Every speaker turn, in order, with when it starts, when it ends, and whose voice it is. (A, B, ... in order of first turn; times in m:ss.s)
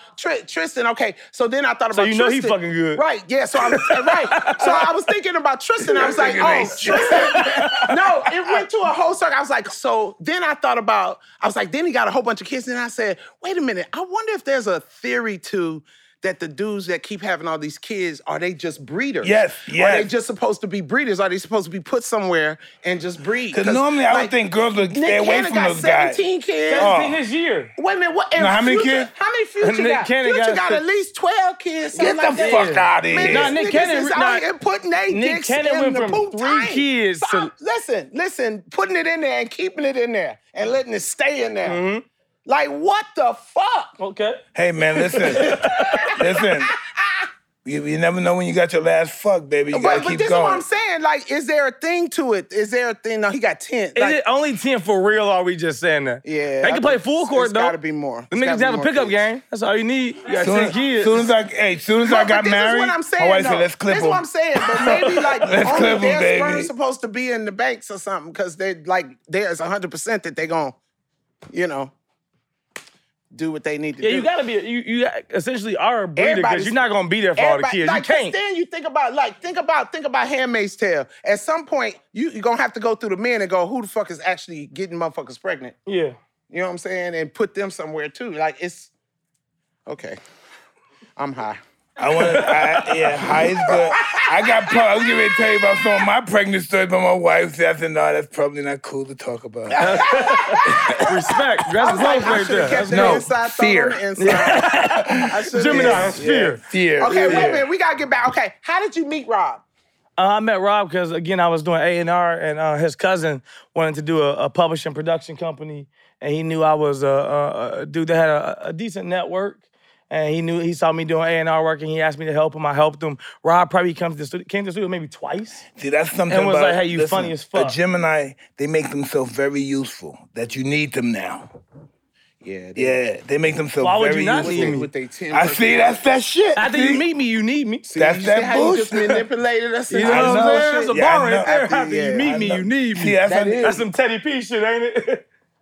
0:00.2-0:24.3 A
0:01.9-0:03.0 B
0:03.6-0:05.0 B
0:05.9-0:08.0 B
0:05.9-0:07.9 C
0:19.2-0:20.1 C
0:23.5-0:26.2 C
0:24.9-0:26.9 A
0:26.7-0:27.7 B
0:26.8-0:27.2 C
0:27.8-0:41.8 A
0:28.4-0:29.1 C
0:29.6-0:30.8 B
0:31.9-0:33.6 C
0:32.3-0:34.4 B
0:35.1-0:37.5 B
0:41.6-0:42.0 B
0:42.4-0:43.9 A
0:44.0-0:44.4 B
0:44.5-0:46.7 C
0:45.0-0:46.2 B
0:45.2-0:47.3 A
0:47.6-0:50.6 C
0:49.7-0:54.2 A
0:53.9-0:57.8 B
0:56.2-0:59.2 A
0:58.3-1:01.2 B
1:00.4-1:04.3 C
1:02.0-1:10.8 A
1:04.8-1:06.7 C
1:11.5-1:11.9 A
1:13.3-1:14.3 A
1:14.0-1:18.4 B
1:16.2-1:16.8 A
1:17.4-1:25.8 A
1:25.9-1:26.2 B
1:26.5-1:28.9 A
1:29.9-1:30.2 A
1:31.2-1:31.6 A
1:32.0-1:41.0 C
1:32.3-1:33.0 B
1:33.6-1:34.7 A
1:39.7-1:41.2 A
1:39.8-1:43.2 B
1:41.8-1:46.2 A
1:42.9-1:47.6 C
1:44.2-1:46.6 B
1:47.0-1:49.6 A
1:47.2-1:47.6 B
1:50.2-2:05.6 B
2:05.8-2:11.5 C
2:06.3-2:07.8 B
2:12.4-2:13.0 A
2:12.8-2:17.0 C
2:13.8-2:14.9 B
2:14.4-2:16.0 A
2:16.6-2:17.8 B
2:17.8-2:22.4 A
2:18.0-2:19.2 C
2:19.9-2:25.2 B
2:20.0-2:21.5 C
2:22.2-2:23.8 C
2:23.2-2:23.8 A